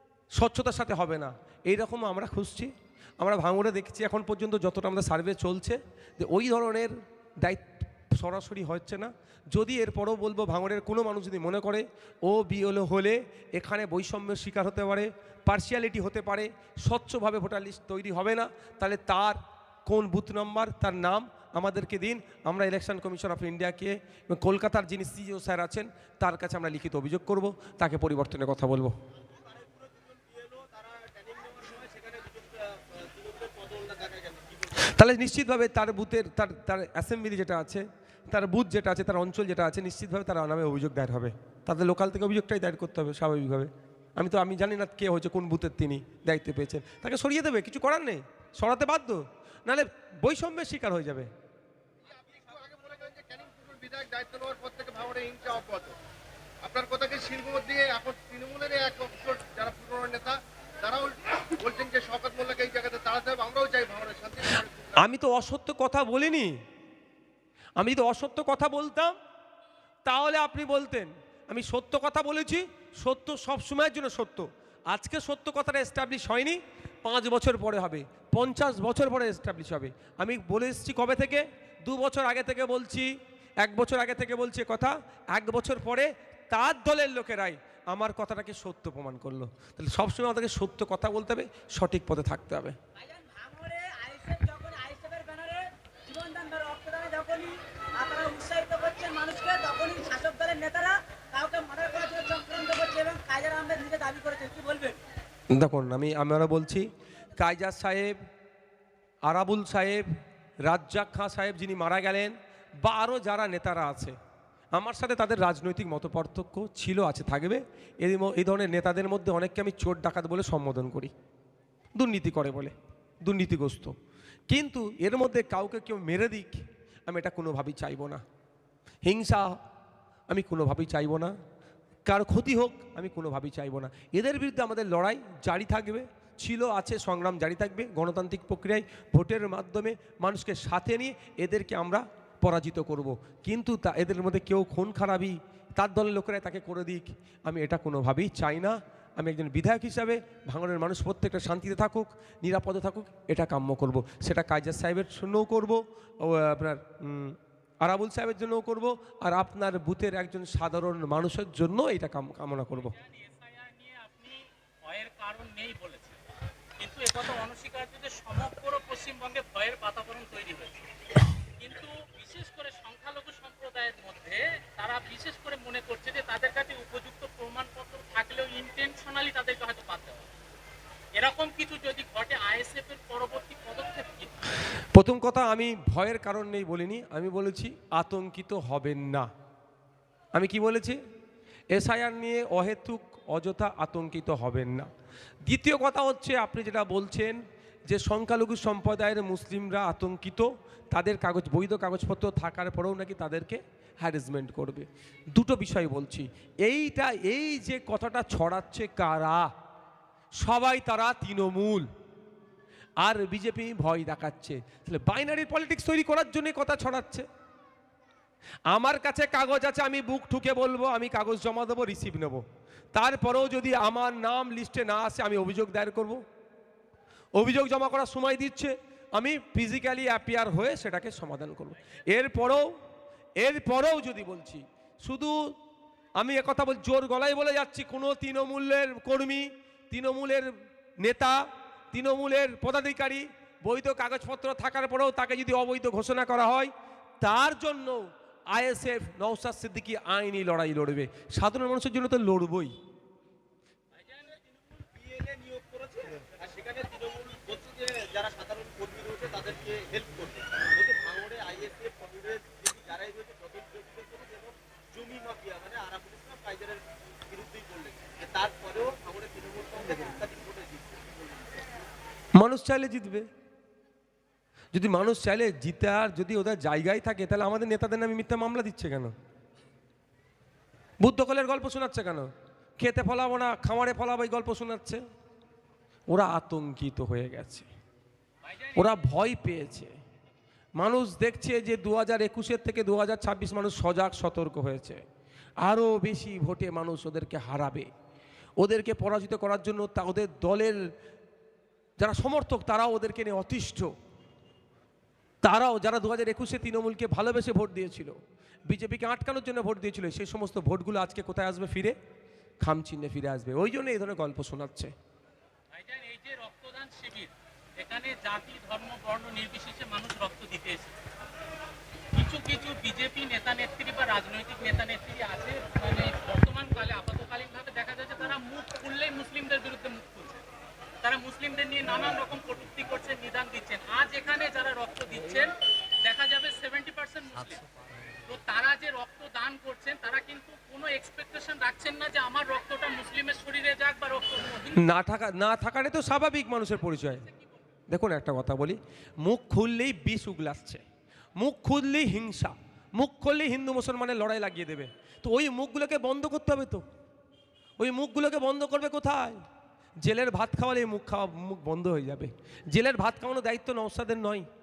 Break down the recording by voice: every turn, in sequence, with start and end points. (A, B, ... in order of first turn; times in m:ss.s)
0:00.4-0:28.9 A
0:29.2-0:34.9 B
0:34.9-0:51.3 A
0:52.0-0:56.0 C
0:56.6-1:05.0 C
1:05.0-1:06.6 A
1:07.8-1:09.2 A
1:10.1-1:23.1 A
1:23.6-1:32.8 A
1:33.0-1:45.0 D
1:45.5-1:48.2 A
1:49.3-1:50.1 A
1:50.6-1:54.2 A
1:54.7-2:01.1 A
2:02.0-2:03.9 A
2:04.5-2:08.2 A
2:09.1-2:09.6 A
2:10.3-2:11.3 A
2:12.1-2:42.9 A
2:42.8-2:46.2 E
2:46.8-2:50.9 E
2:51.6-3:00.3 E
3:01.1-3:04.5 E
3:04.9-3:09.3 A
3:10.3-3:11.0 A
3:11.7-3:14.9 A
3:15.5-3:29.5 A
3:30.4-3:31.9 A
3:33.0-3:37.3 A
3:38.7-3:42.4 A
3:42.9-3:46.2 A
3:47.4-3:52.7 A
3:53.4-3:55.4 A
3:56.2-4:01.4 A
4:01.9-4:12.8 A
4:14.4-4:31.7 B
4:32.4-4:33.3 A
4:34.7-4:39.1 A
4:41.0-4:45.0 A
4:46.1-4:47.7 A
4:48.5-4:48.8 E
4:48.7-4:49.9 A
4:50.8-4:55.0 A
4:55.6-4:57.9 A
4:58.6-5:00.8 A
5:02.0-5:03.9 A
5:05.4-5:12.0 A
5:12.6-5:14.9 A
5:15.7-5:21.0 E
5:22.1-5:30.4 E
5:31.0-5:35.5 E
5:36.0-5:37.6 E
5:38.3-5:44.8 E
5:44.8-5:47.2 A
5:47.9-5:50.8 A
5:51.4-5:56.8 A
5:57.8-5:59.4 A
6:00.0-6:04.5 A